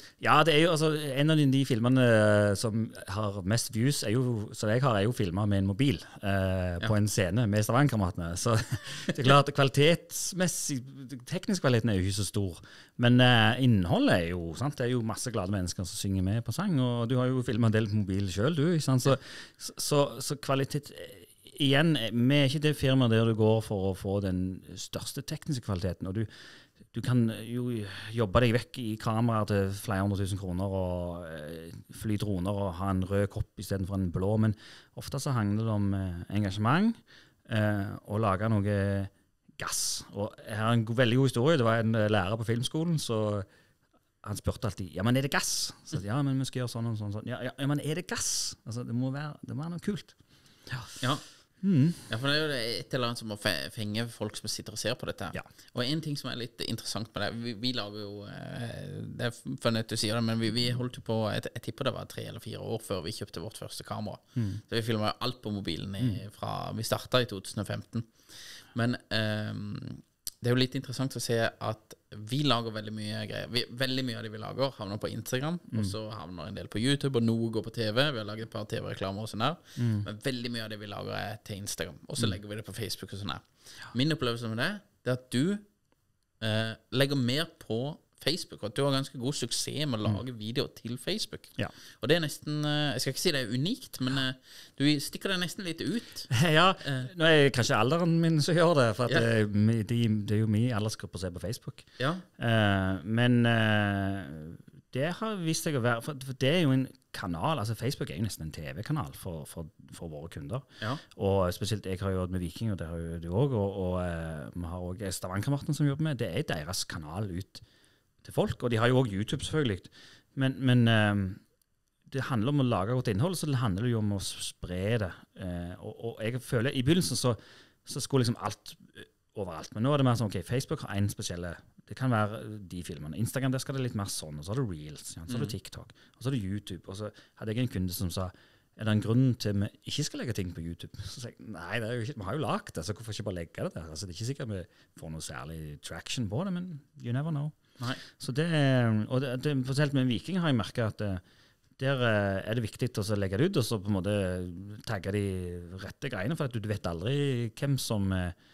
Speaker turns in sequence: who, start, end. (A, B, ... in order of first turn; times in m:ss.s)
0:00.2-0:26.3 A
0:26.9-0:43.5 A
0:44.2-0:50.2 A
0:50.7-0:51.0 A
0:51.6-0:52.1 A
0:52.1-1:25.6 B
1:04.4-1:04.6 A
1:19.8-1:20.0 A
1:26.4-1:36.3 B
1:36.3-1:57.6 A
1:36.8-1:37.1 B
1:42.0-1:42.2 B
1:58.2-2:01.4 A
2:02.1-2:31.2 A
2:15.3-2:15.5 B
2:31.8-2:38.3 A